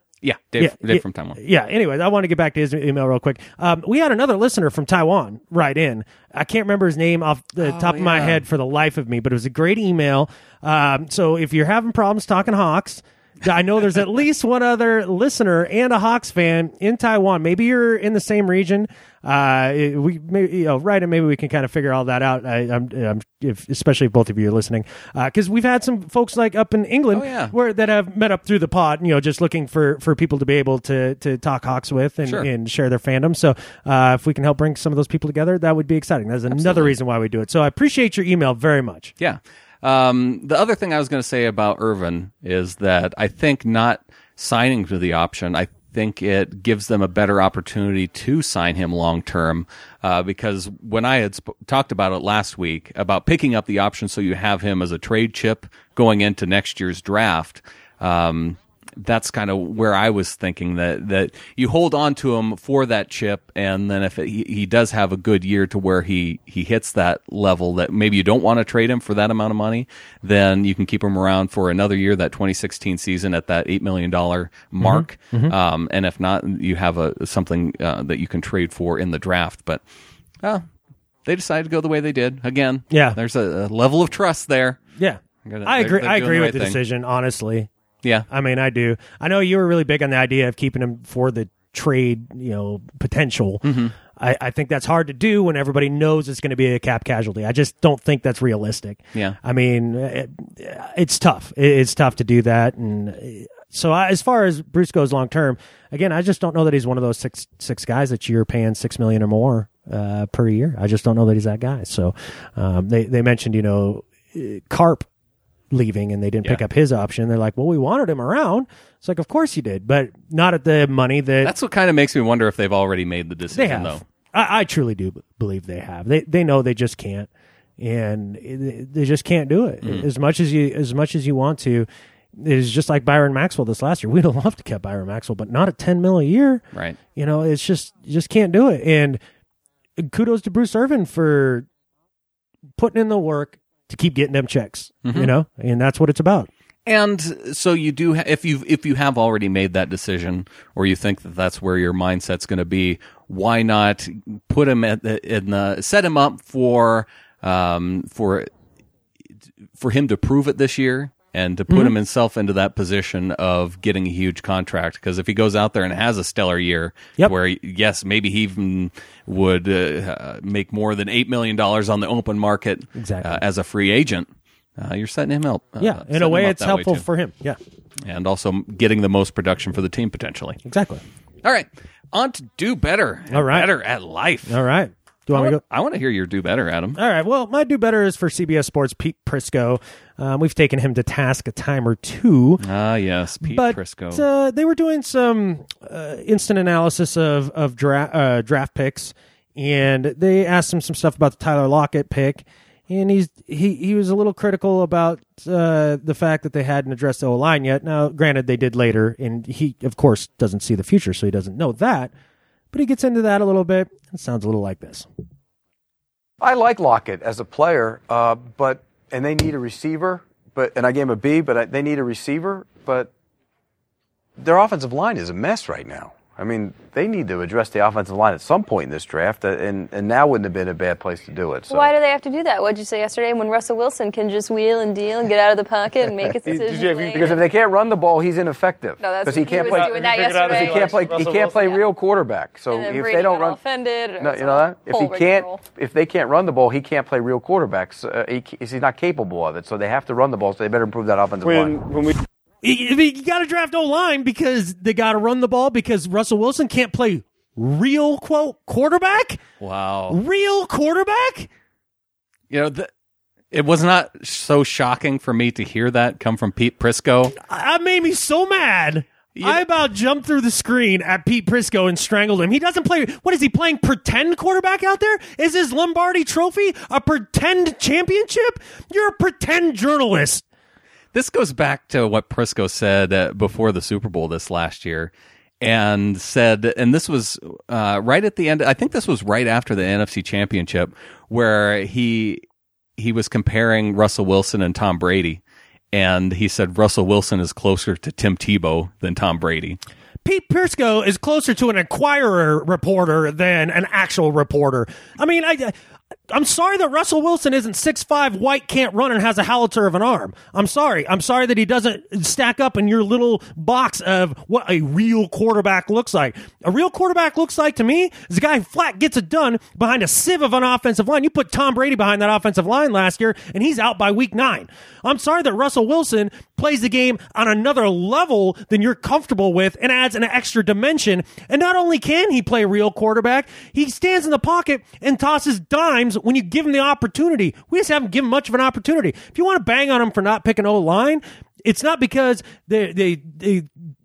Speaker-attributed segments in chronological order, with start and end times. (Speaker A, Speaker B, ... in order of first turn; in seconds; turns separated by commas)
Speaker A: 0.2-1.4, Speaker B: 0.6-39.1, Speaker A: 7.6-8.4, Speaker A: 27.1-27.5, Speaker A: 36.5-36.9, Speaker A: 39.2-79.8, Speaker B: 74.8-75.5, Speaker A: 81.2-84.8, Speaker B: 82.9-83.2, Speaker B: 85.0-87.7, Speaker A: 85.4-86.8, Speaker B: 88.3-115.0, Speaker A: 93.6-93.9, Speaker B: 115.7-121.5, Speaker A: 121.4-124.0, Speaker B: 123.5-127.3, Speaker B: 127.8-136.6, Speaker A: 136.7-137.0, Speaker B: 137.2-139.2, Speaker B: 140.0-141.7, Speaker B: 142.8-146.5, Speaker A: 145.0-145.3, Speaker A: 146.8-158.5, Speaker A: 159.8-177.0, Speaker B: 161.7-161.9, Speaker B: 172.9-173.3, Speaker B: 175.8-177.6, Speaker A: 178.1-180.6, Speaker B: 180.6-181.0, Speaker A: 181.4-184.6, Speaker B: 183.3-183.7, Speaker B: 184.5-185.6, Speaker A: 185.3-187.0, Speaker B: 186.9-192.6, Speaker A: 192.6-194.2, Speaker B: 193.4-212.1, Speaker B: 212.7-215.1, Speaker C: 216.4-223.1, Speaker C: 224.4-231.9, Speaker D: 231.7-237.4, Speaker C: 236.0-243.6, Speaker E: 236.7-237.3, Speaker D: 239.0-241.8, Speaker E: 239.5-241.5, Speaker D: 242.6-245.7, Speaker C: 244.2-251.9, Speaker E: 251.4-252.1, Speaker B: 252.6-259.4, Speaker A: 259.6-260.2, Speaker B: 260.1-261.5, Speaker A: 262.5-262.9, Speaker A: 263.5-267.3, Speaker B: 267.4-280.4, Speaker A: 269.4-269.6, Speaker A: 281.1-292.4, Speaker A: 293.0-295.4, Speaker A: 295.9-299.8, Speaker B: 300.2-305.7, Speaker B: 306.3-343.7